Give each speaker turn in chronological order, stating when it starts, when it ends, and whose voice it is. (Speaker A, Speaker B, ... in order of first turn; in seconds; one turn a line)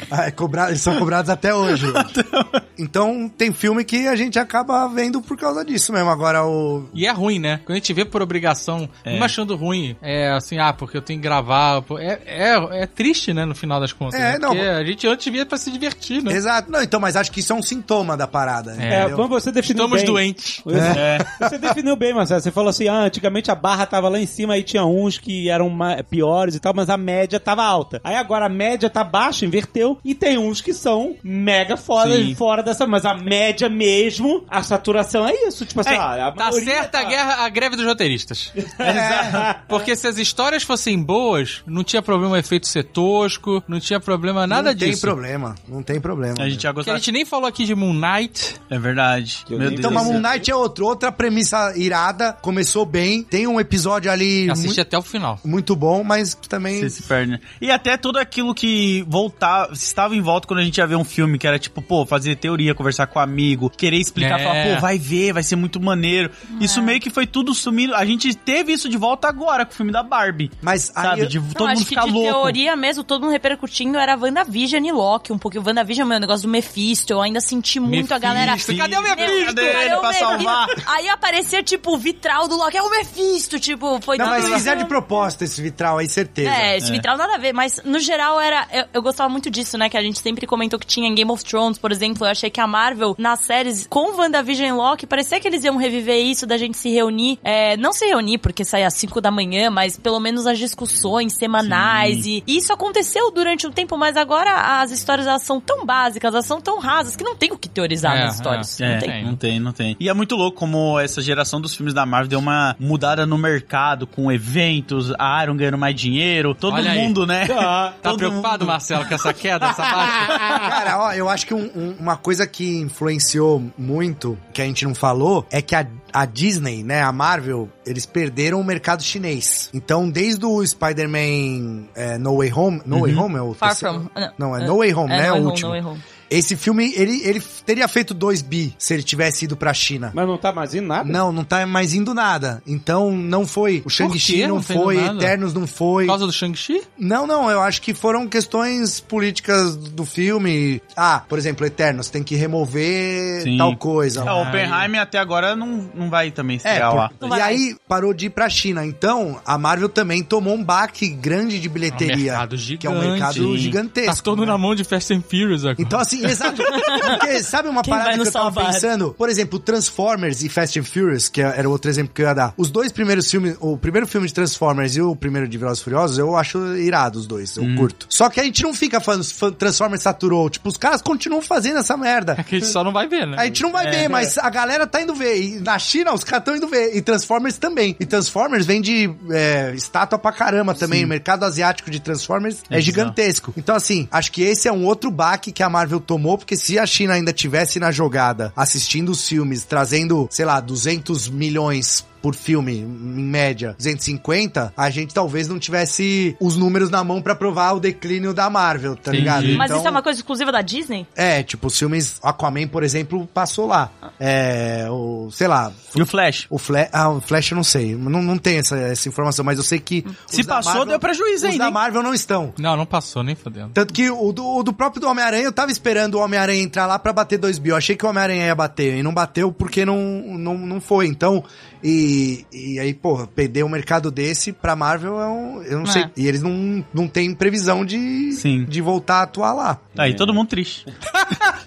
Speaker A: 0.1-2.1
Speaker B: 1.6-2.6
Speaker A: 2.8-7.0
Speaker C: 6.9-16.4
Speaker B: 9.0-9.3
Speaker A: 14.1-14.7
Speaker A: 16.3-19.3
Speaker C: 18.8-19.1
Speaker D: 18.9-37.2
Speaker C: 19.7-20.7
Speaker A: 20.7-21.6
Speaker B: 20.9-21.3
Speaker B: 32.0-32.4
Speaker C: 36.4-38.6
Speaker D: 38.6-39.7
Speaker B: 38.8-39.5
Speaker A: 38.8-39.5
Speaker C: 39.6-45.1
Speaker A: 44.5-46.7
Speaker B: 46.4-47.0
Speaker C: 46.8-48.6
Speaker B: 48.7-50.2
Speaker D: 49.5-50.5
Speaker A: 49.6-54.8
Speaker C: 54.5-55.4
Speaker A: 55.4-56.9
Speaker B: 56.7-72.6
Speaker C: 64.2-64.9
Speaker E: 66.5-67.0
Speaker A: 70.6-71.4
Speaker E: 71.5-85.3
Speaker C: 77.8-79.9
Speaker A: 78.2-79.0
Speaker B: 78.3-80.8
Speaker A: 84.1-86.7
Speaker C: 84.3-84.6
Speaker E: 86.4-109.2
Speaker B: 101.6-102.3
Speaker C: 108.0-109.4
Speaker B: 108.8-118.8
Speaker C: 116.7-117.2
Speaker D: 117.5-118.0
Speaker C: 118.0-120.5
Speaker D: 119.6-120.7
Speaker A: 120.6-140.2
Speaker B: 132.9-133.2
Speaker E: 133.6-136.0
Speaker D: 140.1-141.2
Speaker A: 141.0-146.2
Speaker C: 144.0-145.3
Speaker C: 146.0-146.8
Speaker A: 147.0-154.4
Speaker B: 153.4-157.2
Speaker C: 154.2-154.9
Speaker A: 156.6-164.6
Speaker E: 157.2-157.6
Speaker C: 161.9-166.0
Speaker B: 163.3-163.8
Speaker A: 165.8-182.4
Speaker E: 166.6-167.3
Speaker E: 167.8-168.9
Speaker B: 177.6-177.9
Speaker C: 182.4-183.6
Speaker A: 183.3-210.0
Speaker B: 183.7-184.3
Speaker B: 190.8-191.1
Speaker B: 192.7-193.2
Speaker C: 209.1-209.7
Speaker B: 209.1-209.5
Speaker E: 209.5-211.1
Speaker A: 211.1-222.6
Speaker B: 215.9-216.5
Speaker B: 220.2-221.8
Speaker C: 222.6-223.8
Speaker A: 223.7-240.0
Speaker E: 235.8-236.1
Speaker B: 238.3-238.7
Speaker B: 239.9-240.8
Speaker D: 240.0-240.4